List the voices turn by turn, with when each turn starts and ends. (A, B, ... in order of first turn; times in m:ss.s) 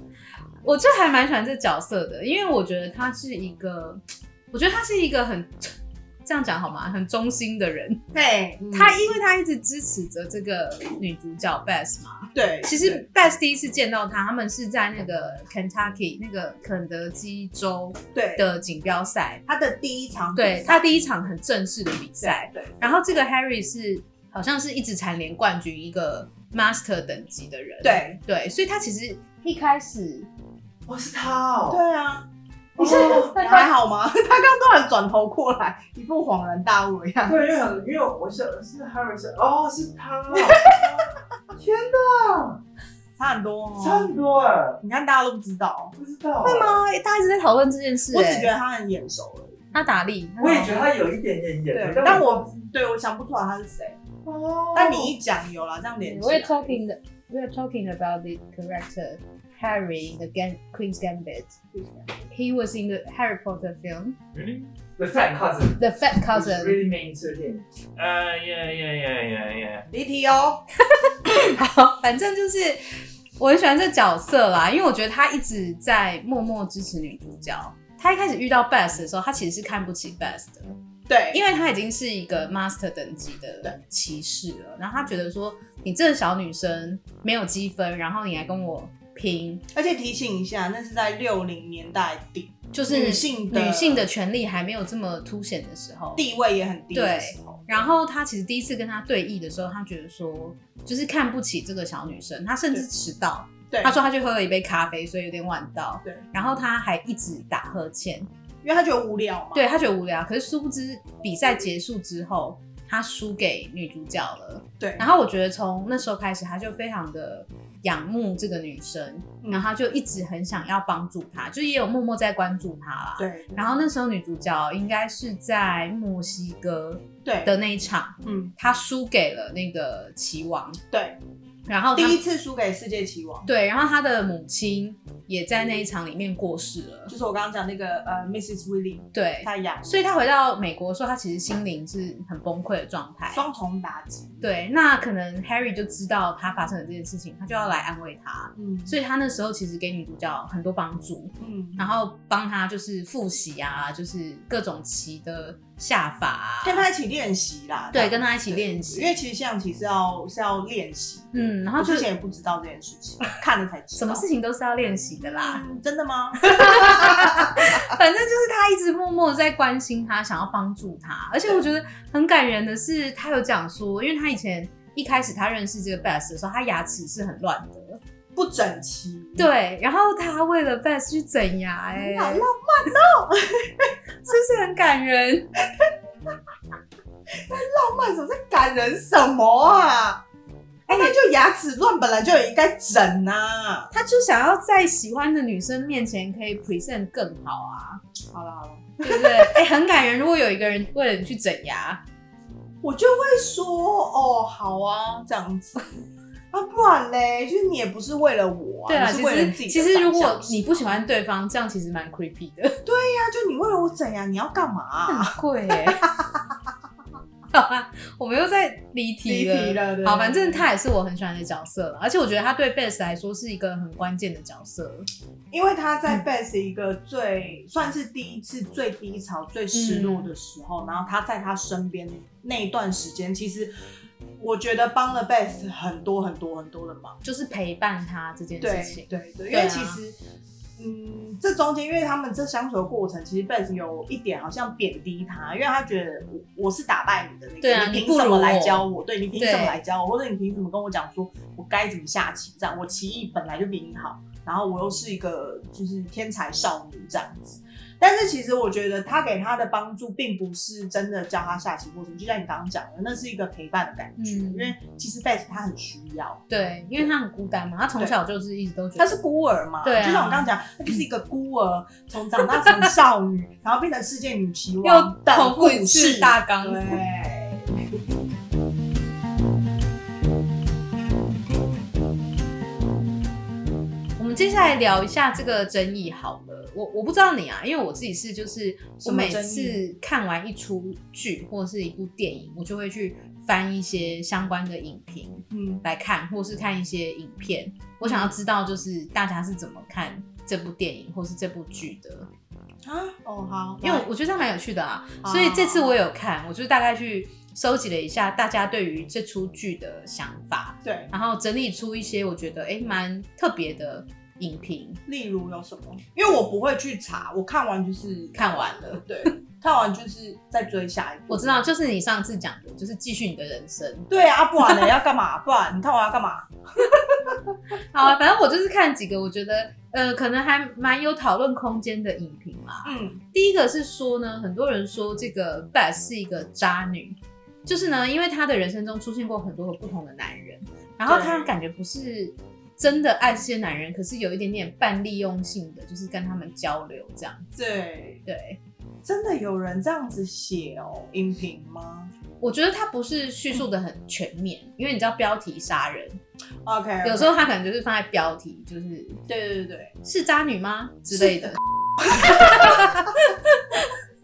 0:00.6-0:08.0 A
0:08.1-0:09.1 B
0:08.7-0:19.4 A
0:12.3-0:13.0 B
0:18.1-0:18.4 B
0:19.5-0:20.9 B
0:20.4-0:30.3 A
0:22.2-0:23.0 B
0:27.8-0:28.2 B
0:30.9-0:31.8 C
0:31.7-0:37.5 B
0:32.8-0:33.4 C
0:32.8-0:33.7 A
0:37.3-0:42.6 C
0:40.3-0:41.0 B
0:43.2-0:44.1 B
0:43.8-0:44.8 C
0:44.8-0:46.0 B
0:46.0-0:46.8 C
0:46.4-0:48.5 A
0:48.1-0:49.6 B
0:49.7-0:50.9 A
0:50.4-0:52.5 C
0:51.7-0:54.0 B
0:54.2-0:55.1 C
0:54.7-0:56.8 B
0:56.0-1:01.6 A
1:01.7-1:02.2 B
1:02.3-1:04.2 A
1:04.3-1:04.7 D
1:05.0-1:07.6 C
1:05.8-1:06.8 A
1:08.0-1:09.9 D
1:09.9-1:10.6 B
1:10.8-1:12.8 A
1:13.4-1:20.7 A
1:21.1-1:21.4 B
1:21.3-1:29.6 A
1:29.7-1:34.1 B
1:32.7-1:36.2 A
1:36.2-1:37.9 B
1:36.9-1:48.3 A
1:43.7-1:44.0 B
1:48.6-1:49.6 B
1:49.5-2:10.8 A
1:54.8-1:55.1 B
1:59.4-1:59.7 B
2:03.2-2:03.8 B
2:07.2-2:07.5 B
2:08.2-2:08.5 B
2:10.9-2:11.2 B
2:11.7-2:12.2 A
2:12.0-2:13.5 B
2:13.5-2:17.1 A
2:17.1-2:20.0 B
2:19.1-2:23.4 A
2:23.3-2:24.4 B
2:24.4-2:36.9 A
2:28.6-2:29.0 B
2:31.4-2:31.8 B
2:36.6-2:44.3 B
2:37.9-2:39.2 A
2:41.3-2:42.1 A
2:44.0-2:45.6 A
2:45.2-2:47.8 B
2:46.4-2:58.0 A
2:58.4-2:59.5 B
2:59.4-3:02.5 A
3:02.0-3:04.0 B
3:04.2-3:05.5 A
3:05.8-3:06.3 B
3:07.3-3:10.2 B
3:10.9-3:11.1 A
3:10.9-3:13.9 B
3:13.9-3:18.0 A
3:18.3-3:19.6 B
3:19.0-3:22.0 A
3:22.8-3:25.9 B
3:26.5-3:30.9 B
3:28.9-3:32.8 A
3:32.8-3:36.6 B
3:35.1-3:36.0 A
3:37.5-3:45.1 A
3:39.2-3:40.7 B
3:45.5-3:53.7 B
3:49.7-3:50.3 A
3:54.4-3:57.2 B
3:57.2-4:00.0 A
3:58.6-4:00.2 B
4:00.8-4:26.4 B
4:07.6-4:08.9 A
4:09.4-4:09.8 A
4:24.2-4:24.7 A
4:26.5-4:29.2 A
4:29.0-4:37.7 B
4:29.8-4:30.5 A
4:34.8-4:37.0 A
4:44.2-5:02.3 A
4:49.0-4:49.8 B
4:55.5-4:55.8 B
4:58.0-4:58.4 B
5:02.8-5:04.1 B
5:03.8-5:15.0 A
5:05.2-5:05.9 B
5:10.8-5:11.1 B
5:15.1-5:21.6 B
5:18.4-5:19.0 A
5:21.3-5:24.1 A
5:24.1-5:27.5 B
5:27.8-5:47.4 A
5:32.8-5:33.2 B
5:41.1-5:41.5 B
5:47.5-5:48.2 B
5:48.3-5:48.6 A
5:49.0-5:52.1 B
5:52.4-5:56.2 A
5:56.6-5:57.4 B
5:57.0-5:59.2 A
5:59.3-6:00.0 B
6:00.0-6:01.6 A
6:01.1-6:03.2 B
6:02.1-6:03.9 A